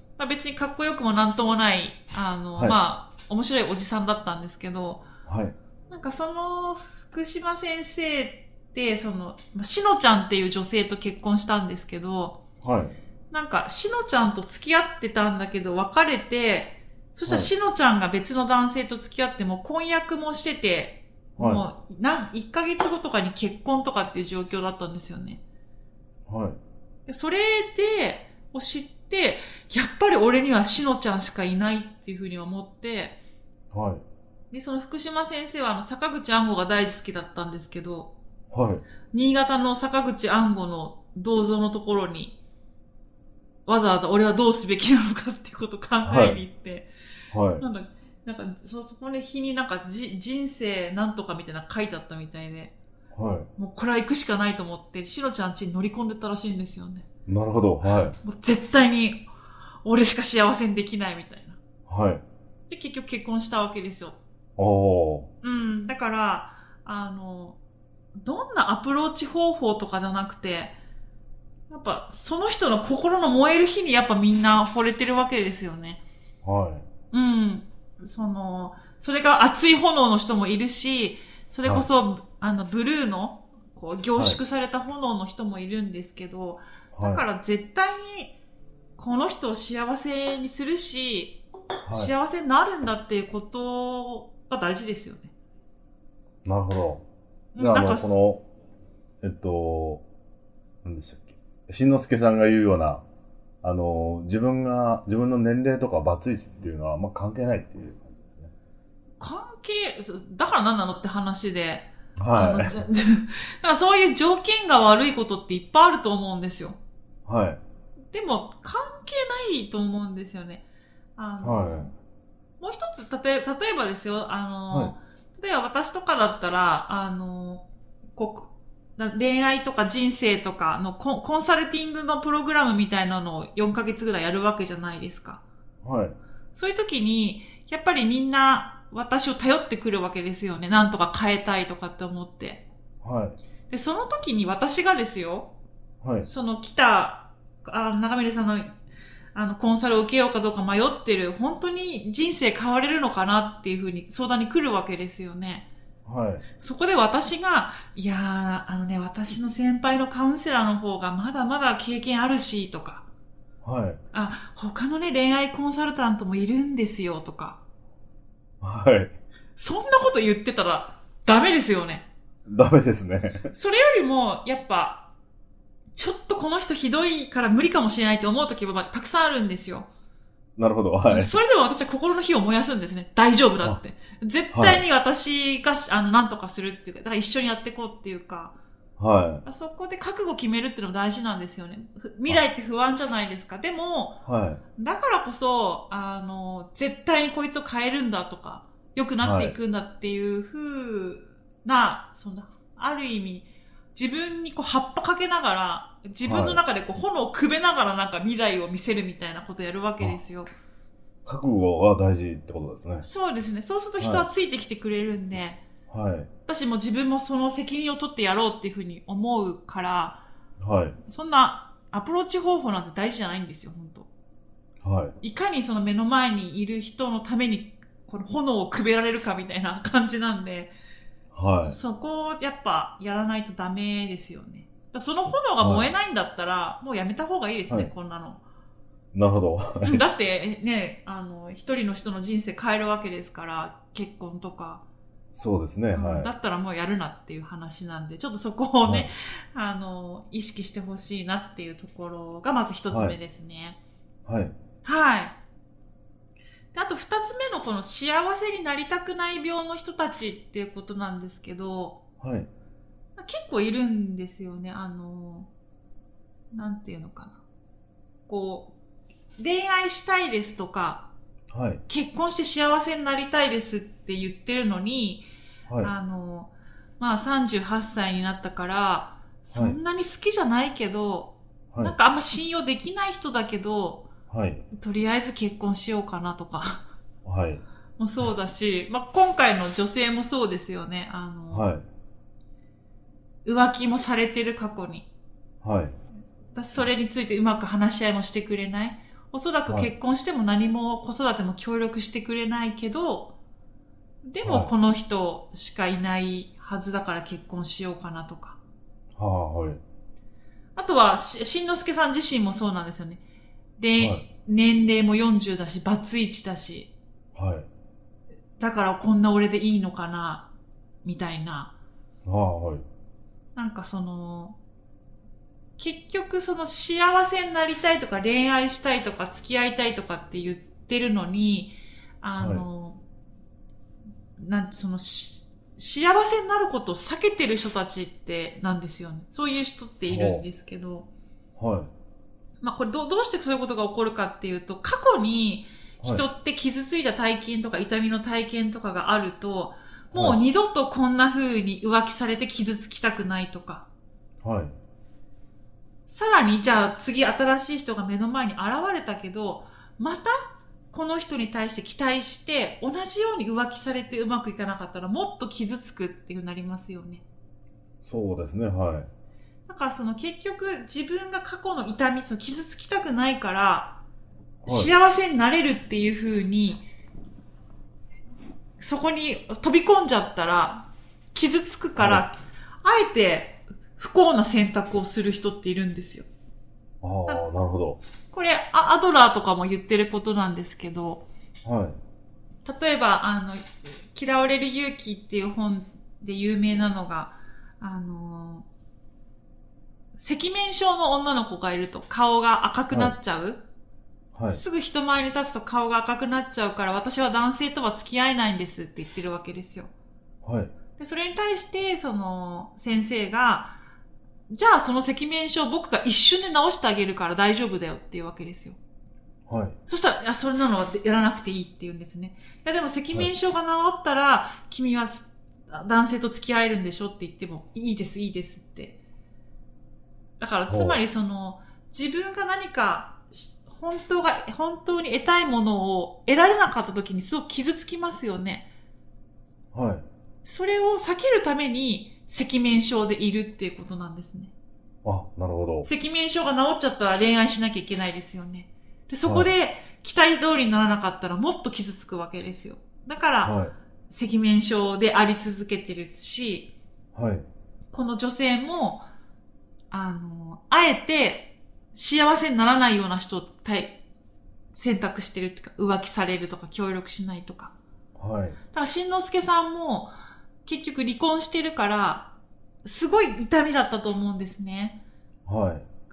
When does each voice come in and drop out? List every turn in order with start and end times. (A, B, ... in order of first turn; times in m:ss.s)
0:00.2-0:05.1 A
0:05.3-0:05.6 B
0:05.9-0:12.4 A
0:12.6-0:13.0 B
0:13.3-0:25.4 A
0:21.4-0:21.7 B
0:26.3-0:26.6 B
0:27.1-0:33.2 A
0:33.7-0:34.0 B
0:34.5-0:38.1 A
0:38.5-0:38.8 B
0:39.1-0:42.4 A
0:43.7-0:46.9 A
0:46.0-0:46.4 B
0:47.3-0:47.6 B
0:47.6-0:52.7 A
0:53.1-0:53.5 B
0:53.6-0:57.0 A
0:57.3-0:58.2 B
0:58.2-0:59.2 A
0:59.8-1:01.6 A
1:01.9-1:02.2 B
1:02.7-1:04.2 A
1:04.6-1:05.3 B
1:05.4-1:07.6 A
1:08.2-1:10.7 A
1:11.7-1:16.0 A
1:16.4-1:16.9 B
1:17.1-1:28.4 A
1:26.9-1:27.2 B
1:29.0-1:35.3 A
1:31.8-1:32.1 B
1:36.4-1:37.0 B
1:37.6-1:38.2 A
1:37.6-1:38.4 B
1:39.2-1:40.0 B
1:40.8-1:43.0 B
1:43.6-1:48.5 B
1:49.2-1:56.8 A
1:52.2-1:52.8 B
1:57.3-1:57.6 B
1:58.1-2:00.6 A
2:01.2-2:01.9 A
2:01.4-2:01.9 B
2:02.6-2:15.4 A
2:15.8-2:16.2 B
2:16.6-2:22.6 A
2:23.0-2:23.4 B
2:23.7-2:25.5 A
2:26.0-2:26.3 B
2:26.2-2:28.7 A
2:29.4-2:35.7 A
2:36.0-2:36.5 B
2:36.6-2:43.0 A
2:43.6-2:44.0 B
2:44.1-2:47.6 A
2:48.6-2:49.1 B
2:49.6-2:52.1 A
2:52.5-2:53.5 B
2:53.5-2:55.1 A
2:56.0-2:59.9 A
3:00.6-3:01.4 B
3:01.1-3:08.6 A
3:04.5-3:04.8 B
3:09.0-3:09.4 B
3:09.4-3:14.2 A
3:14.2-3:14.6 B
3:14.8-3:30.5 A
3:19.2-3:19.6 B
3:26.2-3:26.6 B
3:31.2-3:33.1 B
3:33.0-3:35.6 A
3:34.0-3:34.3 B
3:35.9-3:36.3 B
3:36.5-3:40.2 A
3:40.6-3:41.0 B
3:41.1-3:44.1 A
3:44.8-3:45.2 B
3:45.2-3:50.7 A
3:51.3-3:51.8 B
3:51.7-3:58.4 A
3:55.6-3:55.9 B
3:59.1-4:00.0 B
3:59.8-4:04.8 A
4:05.4-4:06.3 B
4:05.9-4:13.8 A
4:08.8-4:09.1 B
4:12.9-4:13.2 B
4:14.3-4:14.6 B
4:14.8-4:15.4 A
4:16.7-4:22.0 A
4:22.2-4:22.5 B
4:23.2-4:25.5 A
4:26.5-4:27.4 A
4:28.3-4:28.7 A
4:29.4-4:31.1 A
4:31.5-4:31.8 B
4:31.9-4:35.2 A
4:35.8-4:44.1 A
4:39.5-4:39.8 B
4:41.7-4:42.0 B
4:44.3-4:44.7 B
4:44.7-4:46.8 A
4:47.2-4:47.6 B
4:48.0-4:51.7 A
4:51.5-4:51.9 B
4:53.4-4:55.1 A
4:55.6-4:56.0 B
4:56.5-5:03.4 A
5:04.3-5:08.6 A
5:04.4-5:04.7 B
5:09.2-5:09.8 B
5:10.8-5:13.2 A
5:13.8-5:16.9 A
5:14.0-5:14.2 B
5:17.4-5:17.7 B
5:18.6-5:20.5 A
5:21.0-5:21.7 A
5:22.2-5:22.9 B
5:23.6-5:24.6 A
5:25.8-5:33.0 A
5:32.4-5:32.7 B
5:34.4-5:41.1 A
5:40.1-5:40.4 B
5:41.6-5:41.9 B
5:42.6-5:53.9 A
5:50.1-5:50.4 B
5:54.4-5:54.8 B
5:56.1-6:00.4 A
6:00.9-6:07.2 A
6:08.0-6:09.1 B
6:09.7-6:14.0 A
6:14.6-6:14.9 B
6:14.7-6:16.8 A
6:18.8-6:26.3 A
6:22.0-6:22.2 B
6:27.0-6:28.0 B
6:28.3-6:31.3 A
6:31.6-6:32.0 B
6:32.6-6:38.6 A
6:40.2-6:43.6 A
6:44.3-6:44.6 B
6:44.5-6:49.9 A
6:50.4-6:50.7 B
6:51.0-6:53.8 A
6:54.5-6:58.8 A
6:59.5-6:59.8 B
6:59.9-7:09.0 A
7:10.4-7:18.7 A
7:10.7-7:11.0 B
7:19.7-7:20.1 B
7:20.4-7:24.5 A
7:25.0-7:25.9 B
7:25.8-7:33.6 A
7:29.3-7:29.5 B
7:33.4-7:33.7 B
7:34.1-7:36.7 A
7:37.1-7:37.5 B
7:37.9-7:39.1 A
7:39.9-7:44.0 A
7:44.7-7:47.7 A
7:48.2-7:48.6 B
7:48.7-7:50.1 A
7:50.6-7:52.3 A
7:52.8-7:55.0 A
7:55.5-7:55.9 B